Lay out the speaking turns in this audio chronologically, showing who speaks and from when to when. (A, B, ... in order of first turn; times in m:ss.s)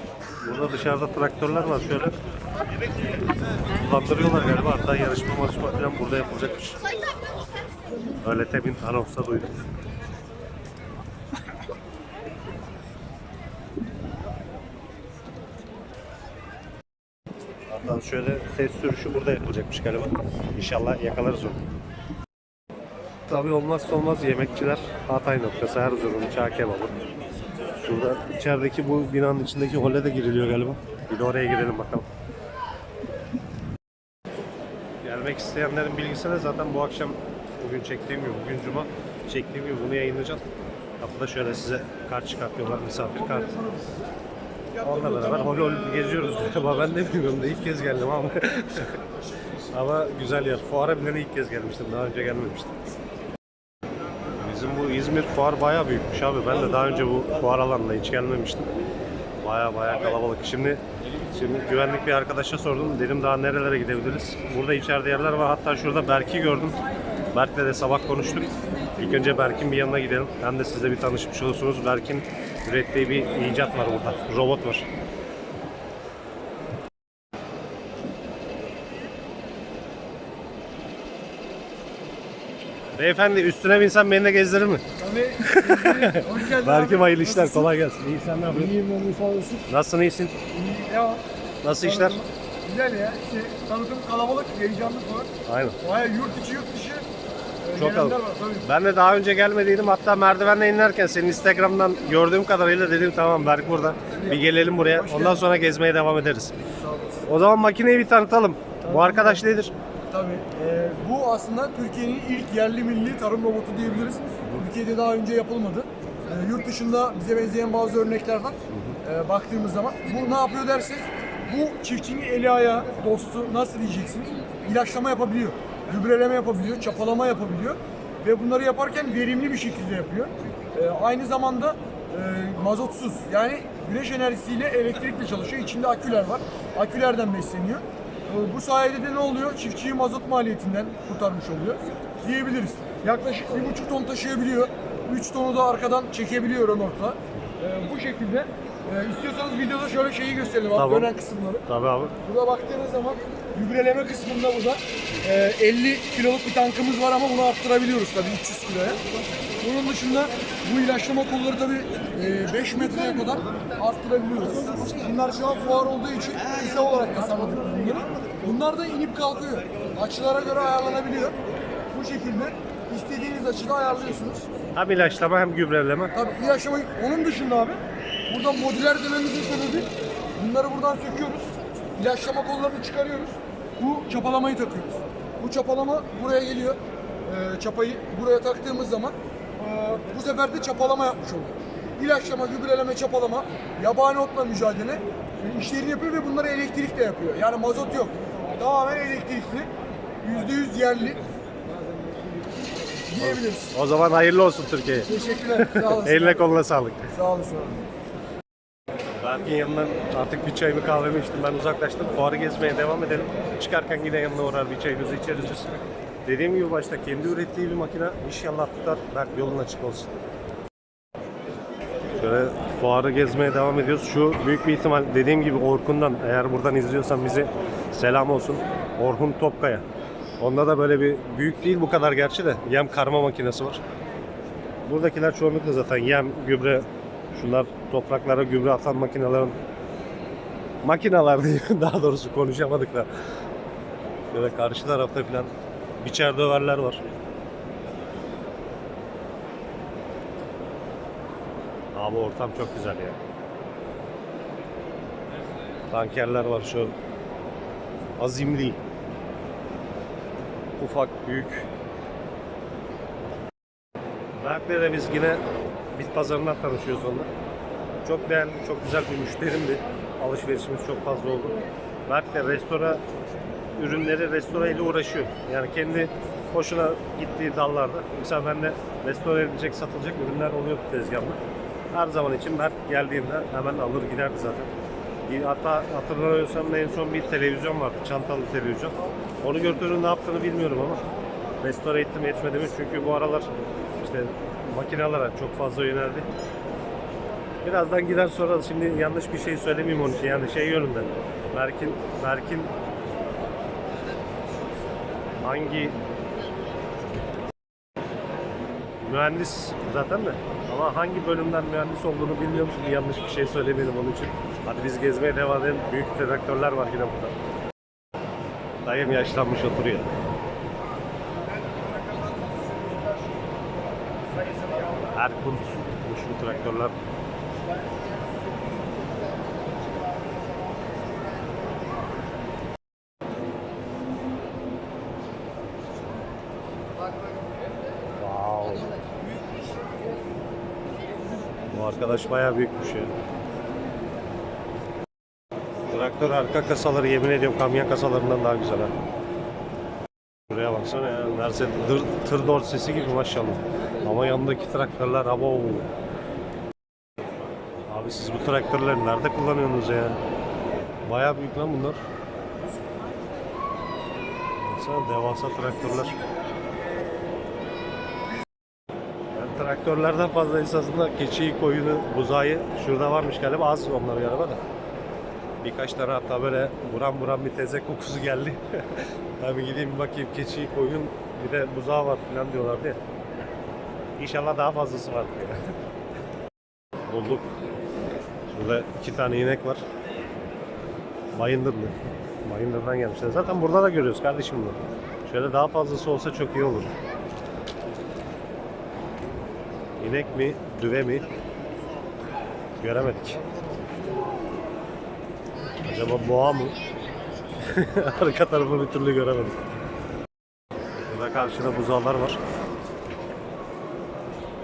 0:00.4-0:02.1 A
0:03.7-0:06.8 A
0:08.2-0:09.6 A
0:17.7-0:21.6 A
0:23.3-0:27.0 A
0:27.8-0:32.0 A
0:35.0-0:40.4 A
0:41.0-0:43.7 A
0:44.8-0:48.9 A
0:49.7-0:52.7 A
0:54.4-0:58.7 A
0:59.4-1:06.8 A
1:07.3-1:14.9 A
1:23.0-1:24.8 A
1:25.0-1:27.7 B
1:25.4-1:28.8 A
1:28.5-1:29.6 B
1:29.7-1:30.4 A
1:30.5-1:31.2 B
1:31.6-1:32.2 A
1:31.8-1:37.0 B
1:35.4-1:35.8 A
1:37.6-1:38.7 B
1:37.8-1:46.6 A
1:44.2-1:45.4 B
1:46.8-1:47.2 B
1:47.3-1:49.7 A
1:48.8-1:49.4 B
1:50.1-2:31.6 B
1:58.7-1:59.0 A
2:30.7-2:31.1 A
2:31.6-2:32.1 A
2:32.2-2:39.0 B
2:39.6-2:51.4 B
2:51.9-2:54.4 B
2:54.7-2:56.1 A
2:56.1-3:19.7 B
3:20.2-3:21.2 B
3:23.1-3:23.7 B
3:23.2-3:27.1 A
3:25.0-3:26.4 B
3:27.1-3:27.8 B
3:29.2-3:40.1 A
3:42.2-3:49.8 A
3:50.4-3:53.8 A
3:54.8-3:59.6 A
4:00.8-4:03.1 A
4:04.3-4:07.0 A
4:11.9-4:13.2 A
4:15.9-4:16.9 A
4:18.2-4:18.8 A
4:20.8-4:21.7 A
4:24.4-4:25.4 A
4:26.0-4:27.3 A
4:28.0-4:33.0 A
4:33.8-4:41.4 A
4:41.9-4:44.7 A
4:45.3-4:51.0 A
4:51.6-4:56.3 A
4:57.6-5:02.7 A
5:05.4-5:06.0 A
5:09.0-5:17.4 A
5:18.8-5:20.1 A
5:25.1-5:26.9 A
5:38.2-5:38.9 A
5:41.7-5:43.2 A
5:45.9-5:48.9 A
5:50.5-5:55.9 A
5:57.9-6:00.2 A
6:01.0-6:02.0 A
6:04.6-6:06.2 A
6:09.3-6:14.6 A
6:15.6-6:23.0 A
6:24.2-6:25.6 A
6:27.1-6:27.5 A
6:28.5-6:29.8 A
6:31.3-6:36.9 A
6:40.0-6:41.3 A
6:42.8-6:43.4 A
6:45.8-6:46.8 A
6:47.6-6:49.6 A
6:51.1-6:52.4 A